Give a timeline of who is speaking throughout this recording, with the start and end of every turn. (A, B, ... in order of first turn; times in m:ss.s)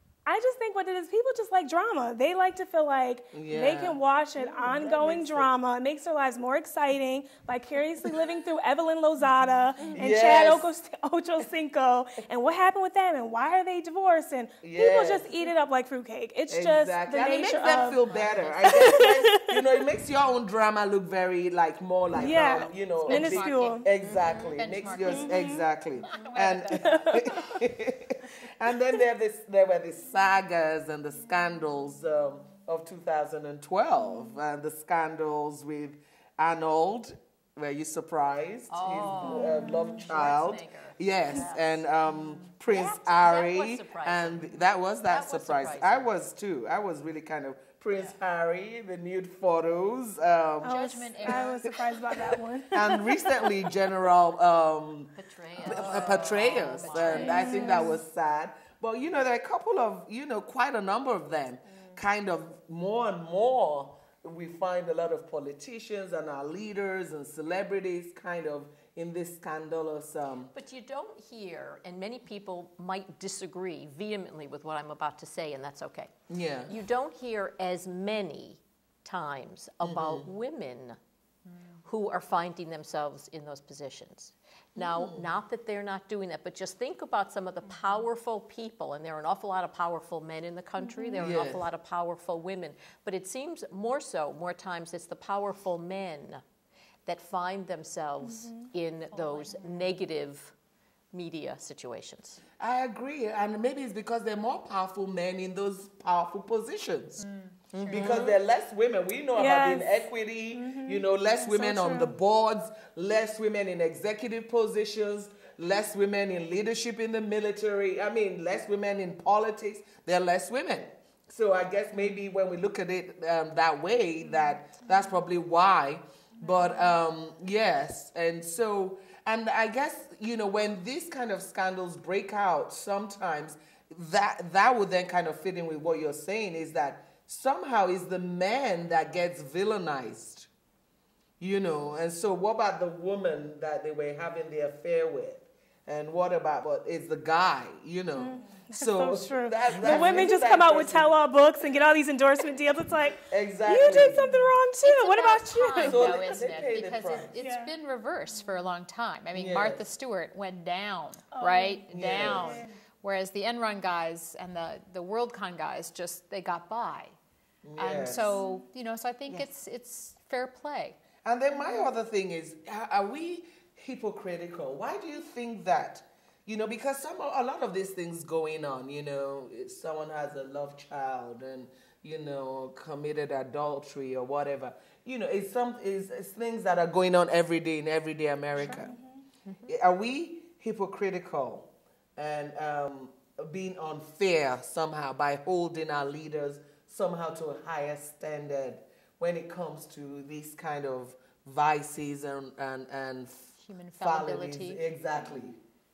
0:00.3-0:18.1 A
0:03.3-0:05.5 B
0:09.9-0:10.7 B
0:14.6-0:15.3 B
0:16.5-1:10.5 B
0:18.0-0:18.7 C
0:18.6-0:19.8 A
0:22.1-0:23.9 A
0:23.0-0:25.5 C
0:24.0-0:24.9 D
0:25.0-0:25.7 A
0:26.0-0:27.2 C
0:26.8-0:27.4 A
0:38.7-0:41.8 D
0:39.6-0:39.9 A
0:42.7-0:46.1 D
0:50.6-0:53.6 A
0:50.6-0:51.7 C
0:55.2-0:57.9 D
0:55.7-0:56.1 C
0:57.1-0:58.0 A
1:10.5-1:16.1 D
1:16.3-1:16.7 B
1:16.7-1:21.0 D
1:19.8-1:20.3 B
1:21.8-1:36.4 D
1:24.8-1:25.3 B
1:30.8-1:31.2 A
1:31.2-1:31.7 B
1:37.1-1:40.5 D
1:38.2-1:38.7 A
1:39.1-1:40.0 C
1:41.1-1:42.4 D
1:42.6-1:47.2 B
1:47.2-1:48.3 C
1:47.7-1:48.3 D
1:47.9-2:20.5 B
1:49.4-1:52.1 A
2:21.4-2:31.1 B
2:28.2-2:36.1 A
2:33.3-2:34.5 B
2:34.8-2:47.2 C
2:35.8-2:37.3 B
2:37.4-2:37.7 A
2:39.3-2:39.8 B
2:41.3-2:42.7 A
2:41.9-2:42.6 B
2:47.6-2:48.4 B
2:47.8-2:51.0 C
2:48.2-2:48.6 A
2:51.2-3:08.9 B
2:51.6-2:51.8 A
3:08.6-3:09.2 A
3:09.7-3:25.6 B
3:23.6-3:24.8 C